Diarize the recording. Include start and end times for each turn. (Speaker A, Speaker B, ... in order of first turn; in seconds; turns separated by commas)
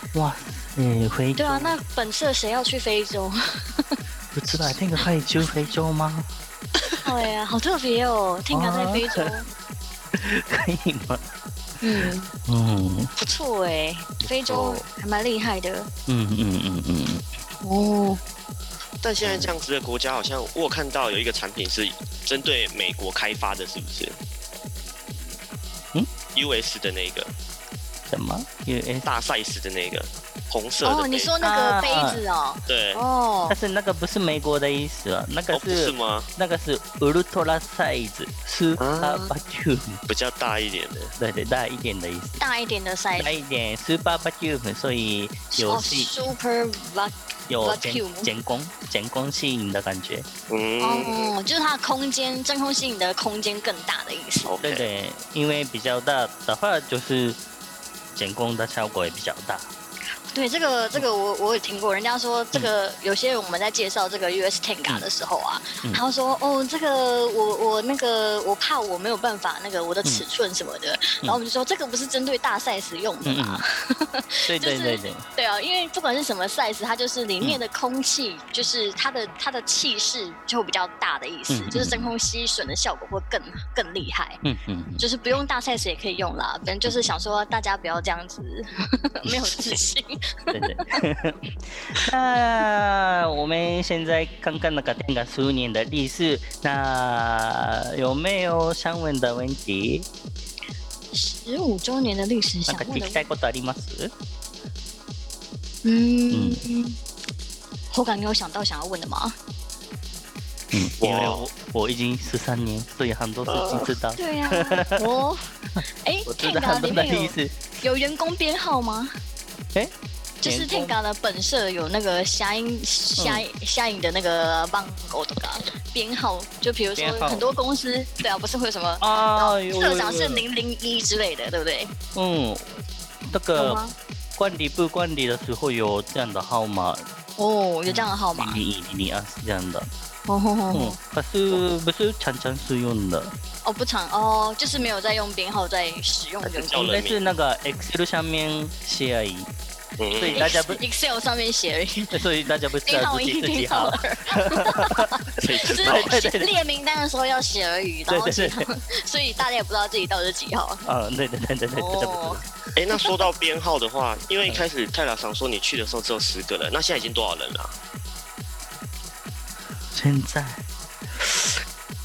Speaker A: 0.1-1.8, Speaker B: 1.4-4.0, Speaker A: 4.3-6.3, Speaker B: 7.0-9.5, Speaker A: 8.5-9.3, Speaker A: 10.1-11.2, Speaker B: 11.8-12.3, Speaker A: 12.0-13.1, Speaker B: 13.2-15.9, Speaker A: 14.2-14.8, Speaker A: 16.1-17.2, Speaker B: 17.6-18.2, Speaker C: 19.0-24.2, Speaker A: 19.2-19.6, Speaker C: 26.3-27.3, Speaker A: 28.1-29.1, Speaker C: 29.0-31.3, Speaker B: 30.8-33.6, Speaker A: 31.4-32.2, Speaker C: 32.7-33.0, Speaker A: 33.5-40.0, Speaker C: 35.5-36.3, Speaker C: 38.8-39.3, Speaker C: 40.1-41.1, Speaker A: 41.2-42.4, Speaker B: 42.4-43.4, Speaker A: 43.1-46.1, Speaker B: 45.5-48.3, Speaker A: 47.5-50.3, Speaker C: 50.5-51.3, Speaker B: 50.8-54.5, Speaker C: 54.5-54.9, Speaker A: 54.6-57.4, Speaker A: 58.1-59.7, Speaker B: 60.3-84.4, Speaker A: 73.2-73.6, Speaker A: 74.5-75.2, Speaker A: 81.5-82.1, Speaker A: 84.4-85.0, Speaker B: 85.0-91.0, Speaker A: 89.2-89.8, Speaker A: 90.5-100.1, Speaker B: 101.1-103.2, Speaker A: 102.7-104.1, Speaker B: 105.8-107.0, Speaker A: 106.3-106.6, Speaker B: 107.9-109.3, Speaker A: 110.7-115.0, Speaker C: 111.0-111.4, Speaker C: 113.5-113.9, Speaker B: 114.2-119.1, Speaker A: 116.2-117.5, Speaker A: 119.7-121.0, Speaker B: 120.4-131.9, Speaker A: 123.2-123.4, Speaker A: 127.0-127.5, Speaker A: 129.0-130.4, Speaker A: 132.1-133.8, Speaker B: 133.6-133.9, Speaker A: 134.3-137.1, Speaker B: 137.4-138.6, Speaker A: 137.9-139.9, Speaker B: 140.3-141.0, Speaker A: 140.7-143.3, Speaker B: 143.6-146.8, Speaker C: 146.4-147.2, Speaker A: 146.7-149.5, Speaker C: 150.0-150.5, Speaker A: 150.1-150.8, Speaker B: 150.3-152.2, Speaker A: 152.1-155.1, Speaker B: 152.8-160.8, Speaker C: 155.4-156.2, Speaker A: 155.6-156.5, Speaker A: 158.1-158.6, Speaker A: 160.8-162.4, Speaker B: 161.7-162.4, Speaker C: 162.8-167.7, Speaker B: 162.9-163.2, Speaker A: 169.9-170.6, Speaker A: 171.2-171.6